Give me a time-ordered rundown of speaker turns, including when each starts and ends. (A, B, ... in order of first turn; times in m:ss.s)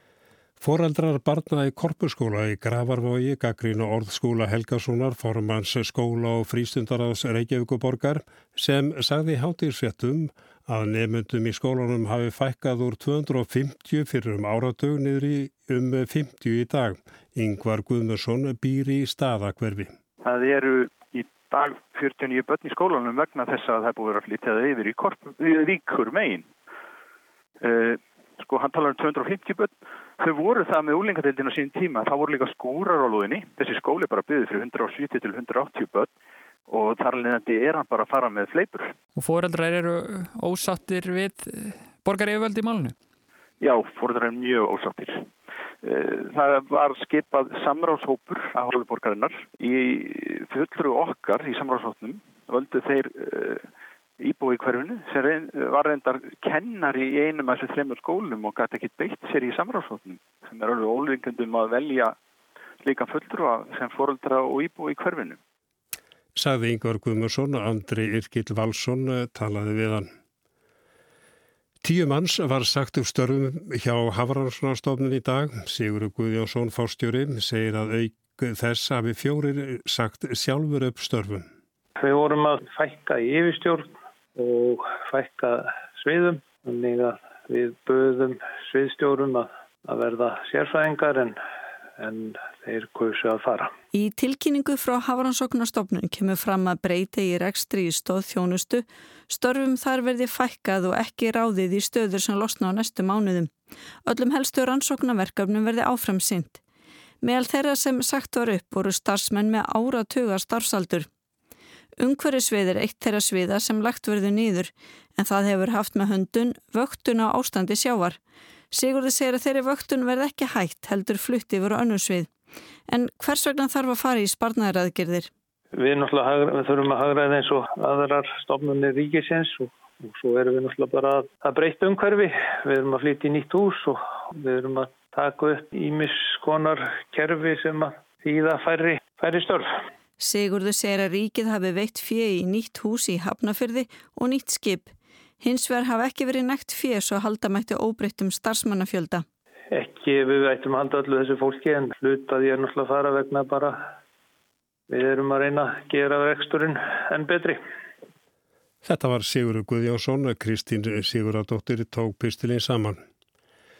0:00.6-0:19.9 A
0:20.2-0:26.5 B
0:27.6-0:36.1 B
0:36.7-0:38.9 B
0:39.2-0:42.9 C
0:43.6-0:45.2 B
0:45.8-0:53.7 B
0:54.2-1:02.2 B
1:02.8-1:05.4 B
1:06.3-1:10.1 A
1:11.8-1:21.4 A
1:22.0-1:31.4 D
1:32.0-1:33.7 D
1:33.9-1:43.5 E
1:44.0-1:46.6 E
1:47.2-1:51.1 E
1:52.0-1:58.2 E
1:58.7-2:02.3 E
2:02.9-2:05.3 E
2:05.7-2:19.7 D
2:20.2-2:24.9 E
2:25.4-2:29.2 E
2:29.7-2:33.8 D
2:34.9-2:37.6 D
2:38.8-2:43.0 A